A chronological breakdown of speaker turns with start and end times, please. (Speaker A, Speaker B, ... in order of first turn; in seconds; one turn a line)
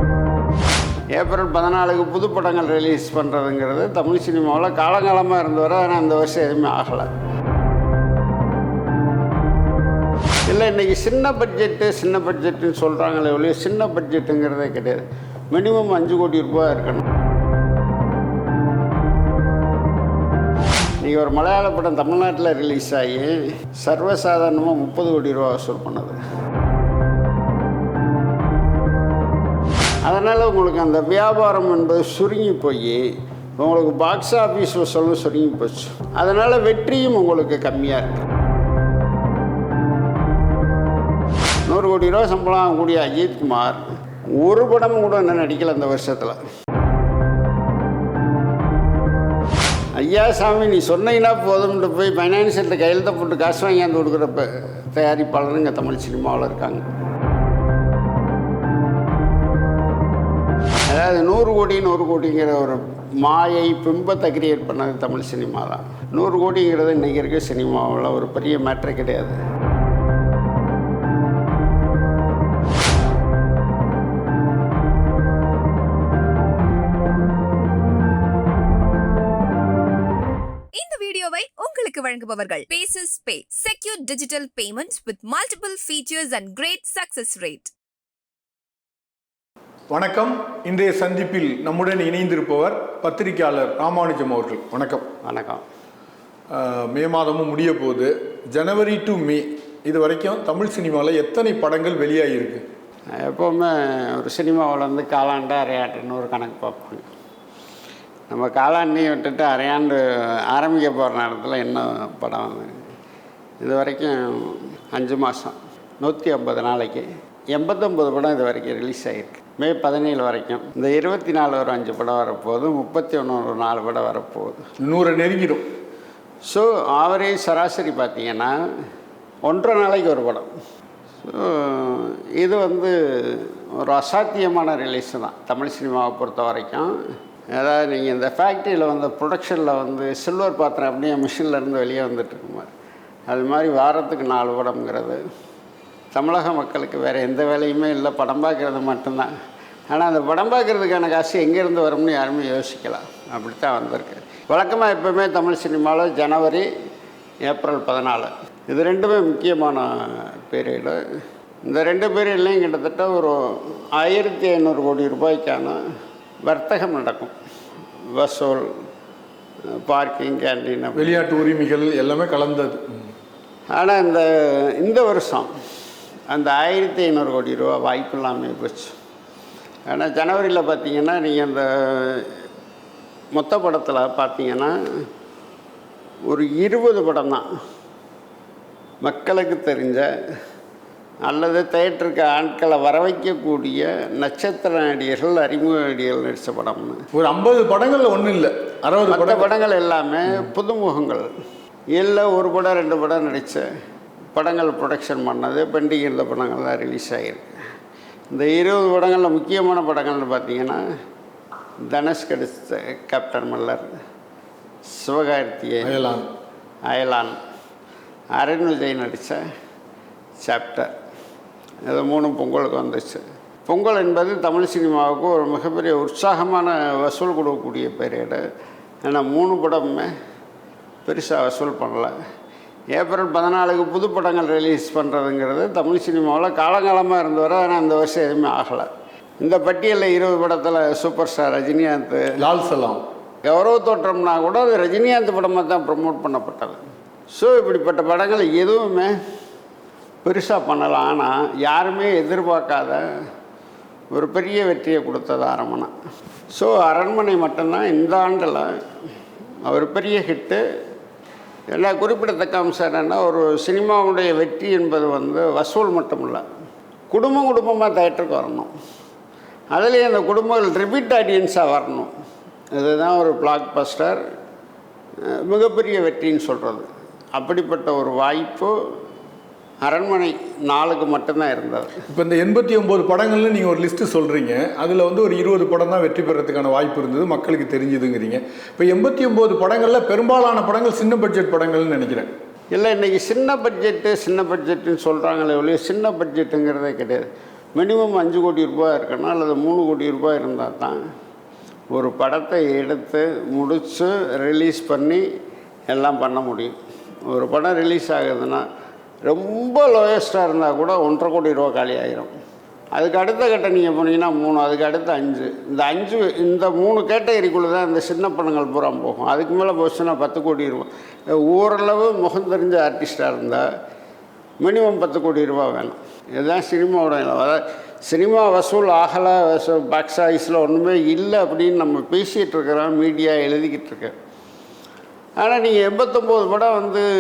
Speaker A: 1.2-7.1
Speaker A: 10.5-17.1
Speaker A: 21.0-26.2
Speaker A: 30.1-33.0
Speaker A: 33.6-38.3
Speaker A: 41.7-43.8
Speaker A: 44.4-46.4
Speaker A: 49.9-56.9
Speaker A: 60.9-69.4
Speaker B: 80.7-87.7
Speaker C: 89.9-95.1
Speaker A: 95.2-95.6
Speaker C: 96.5-102.6
Speaker A: 103.2-107.1
Speaker A: 108.3-112.7
Speaker A: 113.6-124.6
Speaker C: 124.8-125.7
Speaker A: 126.5-128.5
Speaker A: 129.5-130.5
Speaker A: 131.2-136.9
Speaker A: 137.6-142.7
Speaker A: 143.3-145.2
Speaker A: 146.1-149.3
Speaker A: 149.9-156.7
Speaker A: 157.5-161.0
Speaker A: 161.7-165.8
Speaker A: 166.5-167.3
Speaker A: 168.2-168.7
Speaker A: 169.8-171.2
Speaker C: 171.0-172.9
Speaker A: 173.8-175.5
Speaker A: 176.3-178.9
Speaker A: 179.9-182.3
Speaker A: 183.4-184.7
Speaker A: 186.3-187.4
Speaker A: 189.0-190.1
Speaker A: 191.3-197.0
Speaker C: 197.2-199.5
Speaker A: 199.1-201.3
Speaker A: 202.0-203.6
Speaker A: 204.3-207.5
Speaker A: 208.3-210.8
Speaker A: 211.8-213.9
Speaker A: 215.0-216.0
Speaker C: 215.8-216.3
Speaker A: 216.9-217.4
Speaker A: 218.4-219.4
Speaker A: 220.4-220.9
Speaker A: 221.9-228.4
Speaker A: 229.1-230.1
Speaker A: 231.1-232.1
Speaker A: 233.0-238.9
Speaker A: 239.4-242.3
Speaker C: 242.4-243.0
Speaker A: 243.5-246.8
Speaker A: 247.3-249.2
Speaker A: 250.2-253.0
Speaker A: 254.1-255.9
Speaker A: 256.6-258.7
Speaker A: 259.7-260.6
Speaker A: 261.7-266.4
Speaker A: 267.1-268.7
Speaker A: 269.8-272.1
Speaker A: 272.8-274.2
Speaker A: 275.3-278.8
Speaker A: 279.8-282.0
Speaker C: 282.1-292.3
Speaker A: 292.7-297.3
Speaker A: 297.8-301.0
Speaker A: 301.9-305.2
Speaker A: 305.9-306.8
Speaker A: 307.3-308.6
Speaker A: 309.3-312.3
Speaker A: 313.0-320.9
Speaker A: 321.4-323.6
Speaker A: 324.6-334.1
Speaker A: 335.4-337.1